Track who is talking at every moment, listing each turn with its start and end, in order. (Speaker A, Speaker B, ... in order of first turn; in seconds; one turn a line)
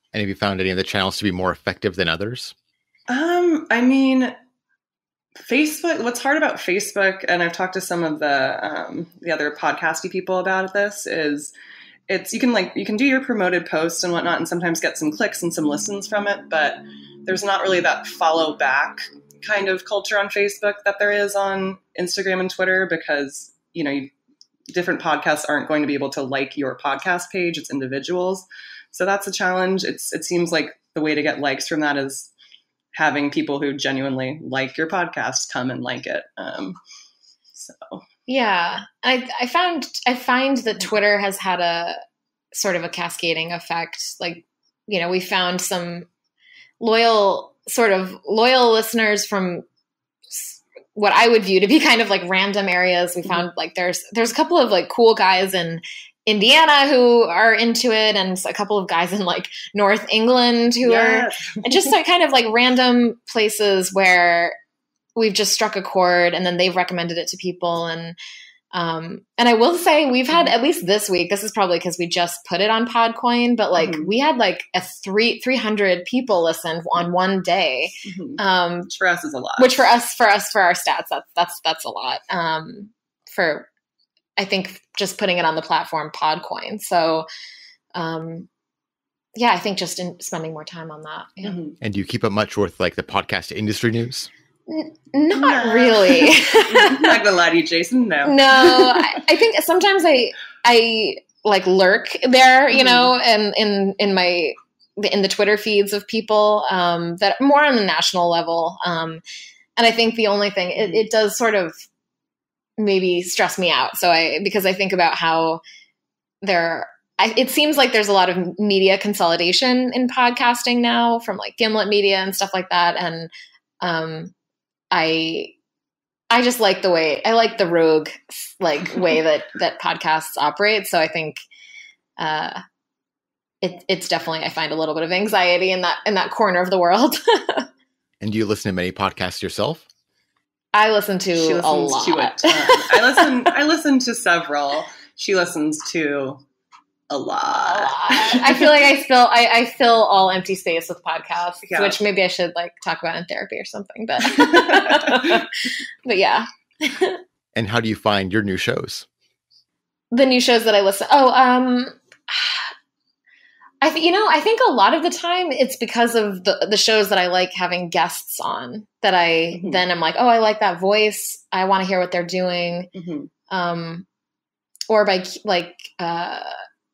Speaker A: 0.1-2.5
Speaker B: 3.1-4.3
Speaker B: 5.3-11.5
Speaker B: 12.1-24.1
Speaker B: 24.7-32.3
Speaker B: 32.9-36.8
Speaker B: 37.5-38.0
Speaker C: 38.3-42.0
Speaker C: 42.5-46.1
Speaker C: 46.8-49.6
Speaker C: 50.3-64.5
Speaker B: 60.8-61.9
Speaker C: 65.2-68.2
Speaker C: 68.7-78.9
Speaker B: 73.8-74.1
Speaker B: 78.0-79.9
Speaker C: 79.6-83.7
Speaker C: 84.4-87.2
Speaker C: 87.9-88.5
Speaker C: 89.3-91.6
Speaker B: 91.4-91.8
Speaker A: 91.8-94.3
Speaker C: 94.7-97.2
Speaker B: 95.3-99.2
Speaker C: 98.2-109.2
Speaker B: 102.7-103.1
Speaker C: 109.8-111.8
Speaker B: 110.8-111.0
Speaker C: 112.8-115.6
Speaker C: 116.4-123.3
Speaker C: 123.8-124.3
Speaker C: 124.9-125.5
Speaker C: 126.3-131.4
Speaker C: 132.2-132.6
Speaker C: 133.6-137.7
Speaker A: 138.2-139.8
Speaker C: 140.7-143.3
Speaker B: 141.3-146.4
Speaker B: 147.1-148.8
Speaker C: 147.5-157.2
Speaker B: 151.7-152.0
Speaker B: 154.2-155.4
Speaker A: 157.5-159.1
Speaker C: 160.1-162.7
Speaker C: 163.8-172.9
Speaker B: 169.5-169.8
Speaker B: 172.9-173.3
Speaker C: 173.5-174.1
Speaker C: 174.9-176.6